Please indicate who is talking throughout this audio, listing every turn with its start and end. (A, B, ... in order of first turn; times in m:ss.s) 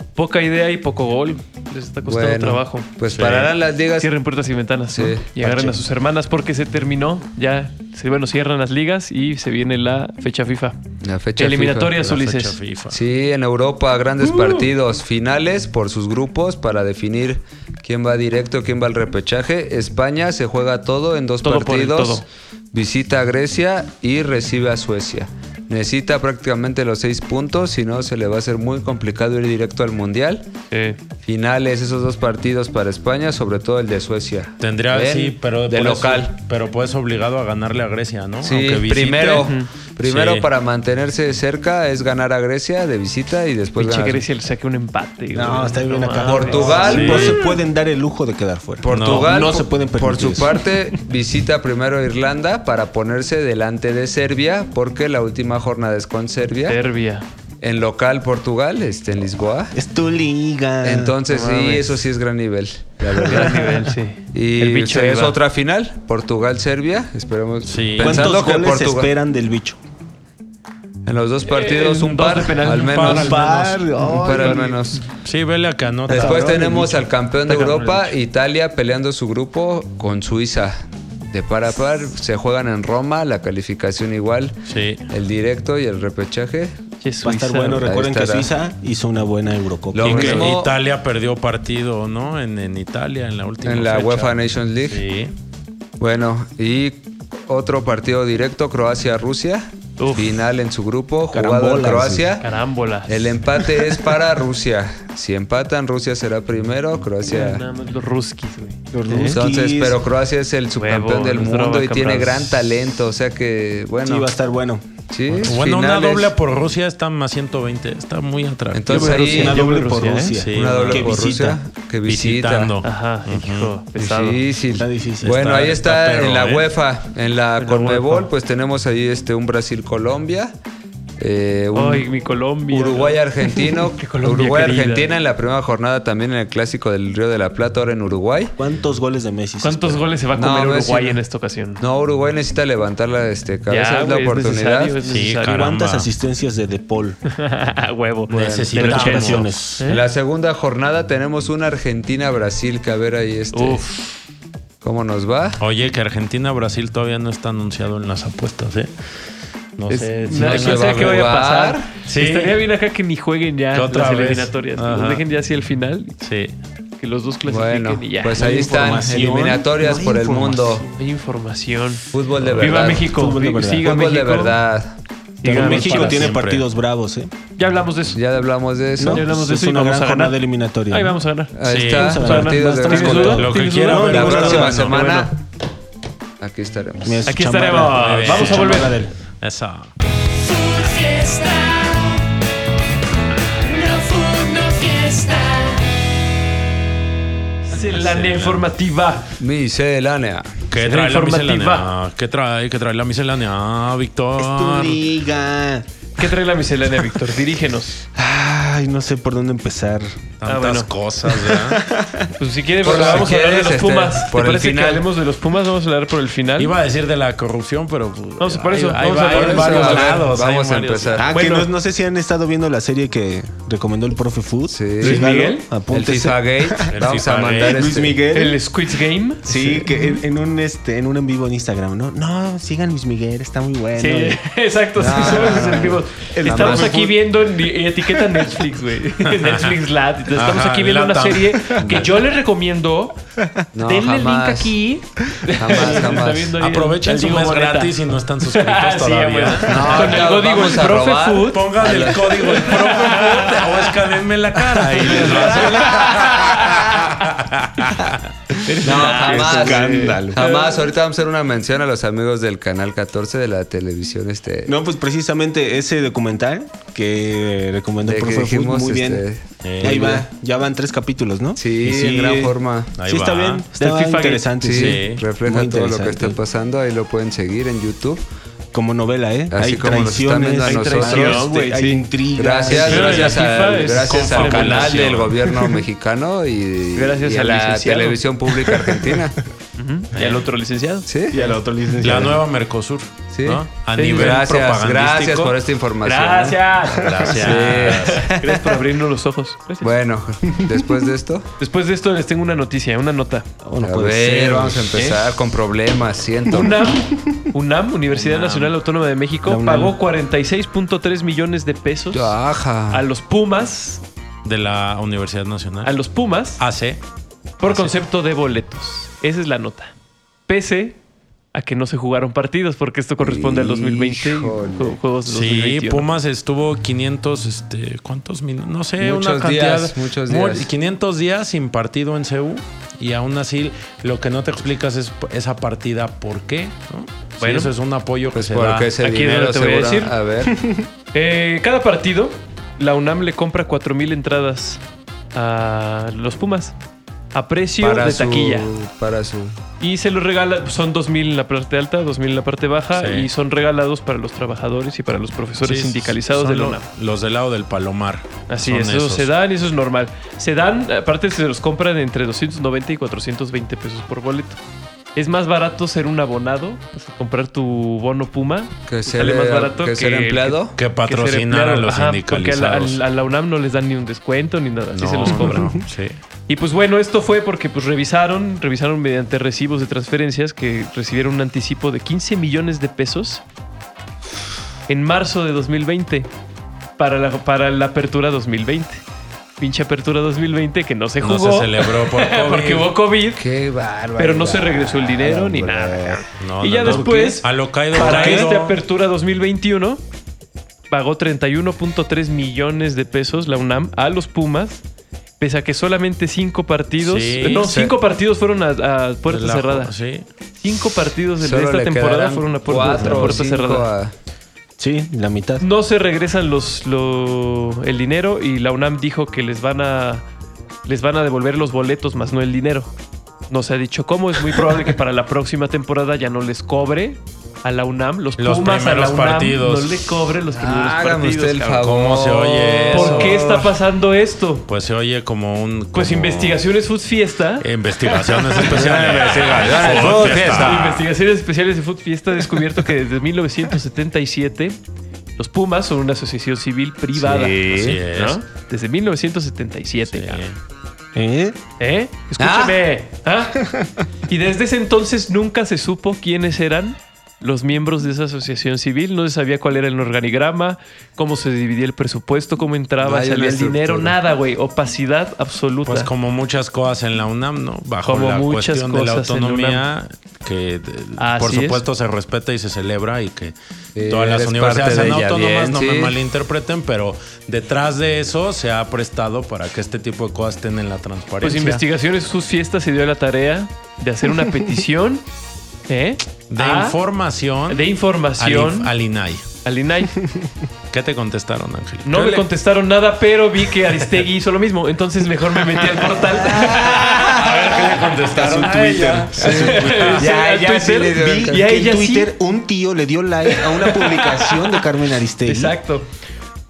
0:00.2-0:02.9 A
0:02.0-0:04.1 B
0:03.1-0:03.5 C
0:04.0-0:10.8 A
0:04.9-0:05.8 B
0:11.0-0:11.9 B
0:11.4-0:12.6 A
0:12.0-0:13.0 C
0:12.9-0:30.5 B
0:14.2-0:14.6 A
0:21.4-0:22.2 A
0:30.7-0:31.0 A
0:31.2-0:36.4 B
0:34.6-0:40.5 C
0:38.4-0:44.2 B
0:39.4-0:39.7 A
0:43.8-0:47.5 A
0:45.3-0:50.9 D
0:46.2-0:47.4 B
0:46.7-0:47.4 C
0:48.8-0:56.8 B
0:48.9-0:49.3 C
0:56.7-0:57.2 A
0:57.6-0:59.7 B
0:59.7-1:01.2 D
1:00.8-1:09.1 B
1:01.3-1:02.0 A
1:03.2-1:03.7 D
1:03.2-1:05.4 A
1:07.6-1:08.3 C
1:08.0-1:09.8 D
1:11.0-1:13.4 B
1:11.5-1:13.5 A
1:12.8-1:13.8 C
1:13.1-1:14.8 D
1:14.0-1:15.0 B
1:14.2-1:14.6 A
1:15.2-1:16.7 C
1:16.1-1:24.6 B
1:16.1-1:17.0 D
1:17.4-1:18.1 A
1:24.7-1:25.0 C
1:25.1-1:26.8 B
1:27.0-1:27.9 A
1:27.2-1:30.5 D
1:27.8-1:28.5 B
1:29.9-1:30.7 B
1:30.0-1:35.3 C
1:33.6-1:35.0 B
1:36.0-1:42.4 B
1:40.0-1:40.4 A
1:41.3-1:42.3 D
1:42.4-1:43.2 A
1:43.0-1:47.6 B
1:47.2-1:49.4 A
1:48.9-1:50.0 D
1:49.2-1:54.3 B
1:50.8-1:52.6 A
1:54.0-1:54.8 D
1:55.1-1:56.3 B
1:55.3-1:59.2 C
1:58.7-1:59.7 B
1:58.9-2:00.4 A
1:59.0-2:01.6 D
2:00.3-2:01.3 C
2:00.5-2:02.7 B
2:02.0-2:03.7 C
2:02.8-2:04.4 A
2:04.0-2:10.5 B
2:04.7-2:05.4 D
2:05.2-2:06.6 C
2:07.6-2:08.3 A
2:11.2-2:12.1 B
2:11.7-2:15.1 A
2:12.7-2:18.6 B
2:18.6-2:20.0 D
2:19.6-2:21.8 A
2:20.3-2:21.2 B
2:21.8-2:25.0 B
2:23.7-2:25.7 A
2:25.0-2:26.1 C
2:25.4-2:27.2 D
2:27.3-2:30.0 A
2:28.3-2:29.8 C
2:28.3-2:28.8 B
2:28.7-2:29.8 D
2:29.9-2:33.8 B
2:33.5-2:34.2 A
2:34.8-2:35.6 B
2:35.6-2:38.9 C
2:39.8-2:41.3 C
2:39.9-2:46.2 A
2:40.3-2:41.9 B
2:42.1-2:42.6 C
2:43.7-2:45.2 C
2:46.2-2:46.5 C
2:47.0-2:48.9 A
2:47.4-2:50.8 B
2:48.3-2:50.8 D
2:50.8-2:52.0 A
2:52.1-2:53.2 B
2:52.4-2:52.9 C
2:52.6-2:54.6 A
2:52.8-2:53.9 D
2:53.8-2:55.0 B
2:55.4-2:56.4 A
2:55.4-2:57.3 D
2:55.5-2:56.7 C
2:57.6-2:58.2 A
2:58.1-2:59.3 B
2:59.0-3:01.2 D
2:59.0-3:01.6 A
3:01.5-3:03.5 B
3:01.6-3:02.2 C
3:01.9-3:04.8 D
3:02.2-3:05.3 A
3:03.3-3:05.0 C
3:04.1-3:05.4 B
3:06.4-3:07.3 B
3:07.0-3:09.1 D
3:07.2-3:09.0 A
3:07.9-3:09.9 C
3:10.3-3:12.2 E
3:13.6-3:15.9 E
3:17.6-3:19.3 A
3:17.7-3:18.7 C
3:19.4-3:20.6 B
3:20.7-3:25.0 C
3:20.7-3:21.9 A
3:24.4-3:25.8 D
3:26.2-3:28.0 A
3:28.2-3:30.3 D
3:30.4-3:31.8 C
3:30.4-3:30.9 A
3:31.2-3:32.3 D
3:32.4-3:36.7 A
3:32.8-3:35.0 B
3:32.8-3:33.3 C
3:36.6-3:41.2 C
3:38.4-3:40.3 A
3:39.3-3:41.3 B
3:41.2-3:46.9 D
3:41.3-3:41.7 A
3:44.7-3:45.3 B
3:45.0-3:45.7 A
3:45.9-3:48.2 B
3:46.9-3:47.9 C
3:47.6-3:48.6 D
3:48.3-3:50.2 A
3:49.4-3:54.4 D
3:54.0-4:03.2 A
3:55.0-3:57.0 B
3:55.2-3:57.2 D
3:59.2-3:59.8 C
4:00.3-4:02.0 C
4:01.8-4:02.1 B
4:03.7-4:04.8 B
4:03.8-4:13.9 A
4:05.6-4:06.6 B
4:06.6-4:10.3 C
4:09.6-4:12.8 B
4:11.5-4:18.2 C
4:14.6-4:16.2 B
4:14.9-4:17.0 A
4:18.6-4:20.9 A
4:18.7-4:20.4 D
4:18.8-4:24.7 B
4:24.6-4:29.2 D
4:28.0-4:30.2 B
4:29.6-4:30.2 C
4:29.8-4:32.5 D
4:31.6-4:32.9 B
4:33.0-4:33.6 C
4:33.0-4:36.4 D
4:33.8-4:34.5 A
4:34.6-4:38.2 B
4:34.7-4:35.2 C
4:38.7-4:43.4 D
4:39.5-4:41.5 B
4:40.6-4:42.0 A
4:42.3-4:49.4 B
4:42.8-4:43.3 C
4:42.8-4:45.2 A
4:43.9-4:45.3 C
4:47.0-4:48.2 A
4:49.8-4:51.5 A
4:50.1-4:50.4 C
4:51.0-4:51.4 B
4:51.3-4:52.4 D
4:52.0-4:55.6 C
4:53.3-4:56.6 B
4:53.9-4:54.4 A
4:56.0-4:59.9 A
4:56.9-4:58.2 C
4:57.3-4:58.8 B
4:59.8-5:01.5 B
5:01.6-5:03.4 A
5:03.6-5:05.0 D
5:03.8-5:06.9 B
5:04.9-5:05.2 A
5:06.5-5:12.4 A
5:08.2-5:08.7 C
5:09.4-5:10.0 D
5:12.1-5:13.0 B
5:12.9-5:14.0 A
5:14.4-5:15.9 C
5:15.8-5:16.6 A
5:16.6-5:17.0 C
5:17.6-5:19.9 A
5:20.5-5:21.0 A
5:21.5-5:26.1 A
5:23.2-5:25.0 B
5:25.3-5:38.9 C
5:29.0-5:30.7 B
5:37.4-5:37.7 A
5:38.3-5:40.6 B
5:39.0-5:40.1 A
5:41.1-5:44.8 A
5:45.3-5:46.8 A
5:47.3-5:48.7 A
5:47.8-5:49.6 B
5:49.8-5:56.8 A
5:52.9-5:53.3 C
5:55.6-5:59.3 C
5:58.5-6:04.6 A
6:05.1-6:15.8 A
6:08.9-6:10.8 B
6:10.8-6:13.0 C
6:14.9-6:16.2 C
6:16.5-6:23.4 A
6:24.9-6:26.3 A
6:27.0-6:29.0 A
6:29.6-6:33.4 A
6:31.2-6:32.9 C
6:33.3-6:36.2 B
6:34.2-6:40.0 A
6:36.4-6:38.8 C
6:36.8-6:37.4 D
6:37.9-6:38.5 D
6:40.9-6:44.8 A
6:45.4-6:49.9 A
6:47.0-6:47.8 C
6:47.6-6:47.9 B
6:49.3-6:50.2 C
6:50.6-6:53.9 A
6:51.4-6:54.1 B
6:53.0-6:53.3 D
6:54.8-6:55.6 D
6:55.6-7:00.2 A
7:00.8-7:02.9 A
7:03.5-7:11.8 A
7:08.4-7:10.1 C
7:10.5-7:13.7 B
7:11.8-7:13.6 C
7:12.9-7:14.6 A
7:14.7-7:16.6 C
7:15.9-7:17.6 A
7:17.6-7:20.9 C
7:18.5-7:21.1 B
7:19.9-7:24.8 A
7:25.4-7:30.4 A
7:27.1-7:28.0 B
7:27.7-7:28.4 C
7:30.1-7:30.6 C
7:31.1-7:31.6 D
7:31.8-7:33.6 A
7:32.4-7:32.8 B
7:34.3-7:46.1 A
7:43.0-7:44.2 B
7:45.8-8:01.8 C
7:48.0-7:49.8 A
7:51.2-7:51.8 A
7:54.0-7:56.2 B
8:01.4-8:05.2 A
8:05.9-8:07.0 A
8:06.5-8:09.4 C
8:07.7-8:08.9 A
8:09.6-8:10.2 A
8:10.9-8:12.5 C
8:12.0-8:17.5 A
8:16.6-8:20.4 D
8:16.6-8:20.2 C
8:16.6-8:17.1 B
8:19.4-8:21.7 B
8:19.4-8:22.3 A
8:21.0-8:25.8 D
8:23.5-8:24.9 A
8:25.4-8:26.1 A